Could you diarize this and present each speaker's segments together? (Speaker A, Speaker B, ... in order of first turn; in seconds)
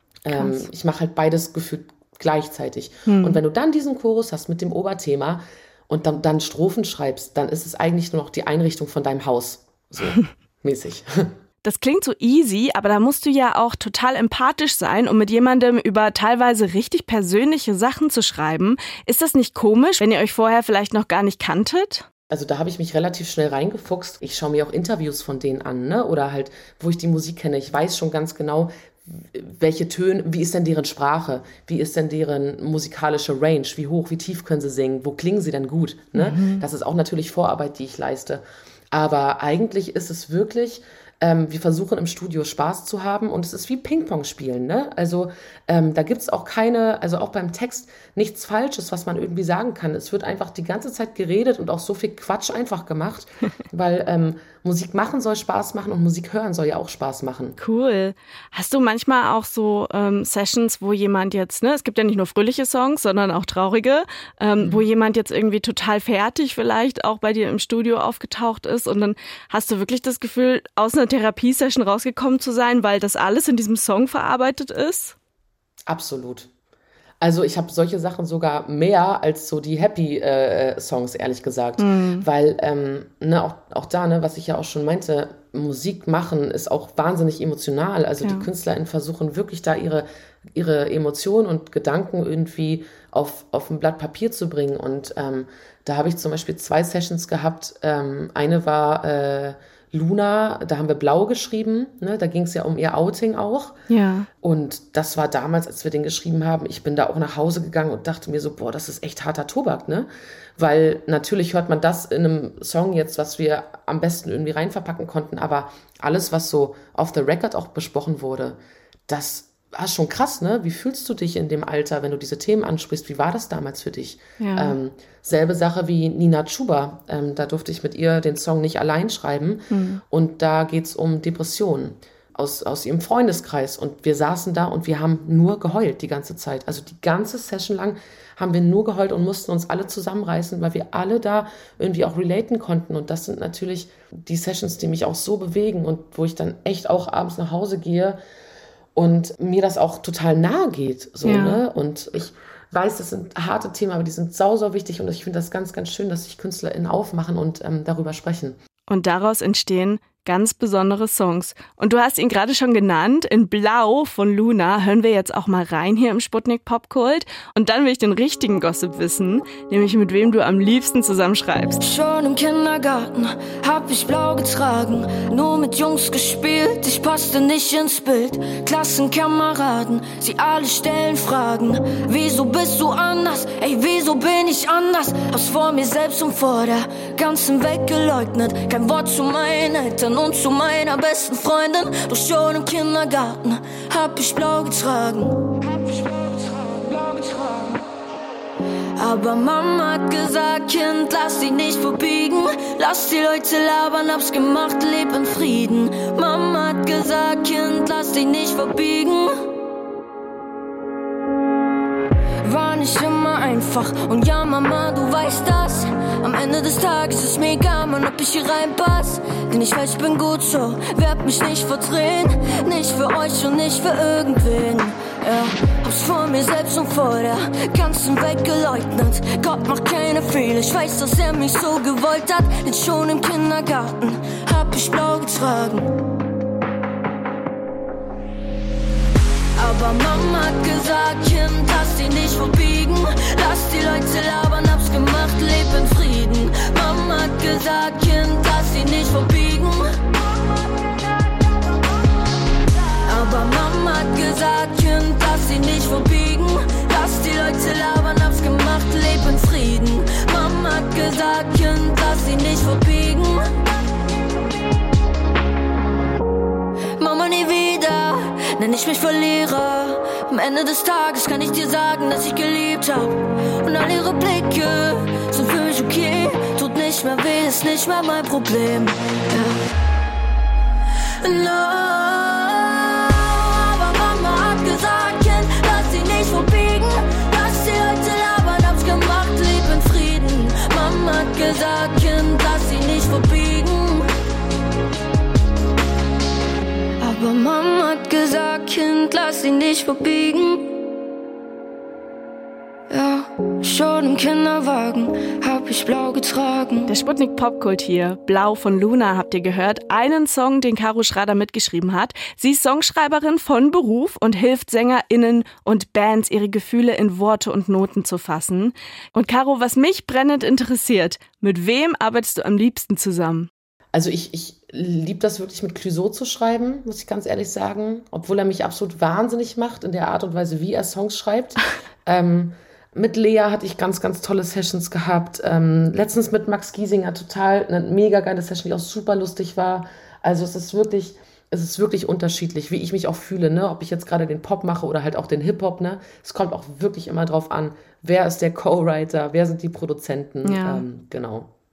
Speaker A: 0.2-11.3, 22.3-57.6, 64.6-64.8, 75.9-76.5, 77.2-103.8, 104.4-148.2, 148.9-158.6, 323.9-351.5
Speaker B: 0.3-0.6, 3.1-3.4, 11.6-22.1, 36.2-36.6, 57.6-75.2, 81.8-82.3, 88.2-88.5, 103.9-104.3, 124.4-124.8, 129.7-130.0, 151.2-151.6, 158.9-171.8, 306.9-323.5, 350.4-350.8
Speaker C: 171.8-197.8, 198.9-209.5, 212.4-236.0, 239.6-250.0, 253.1-263.6, 267.0-279.6, 281.2-294.1, 297.0-300.8, 302.9-306.9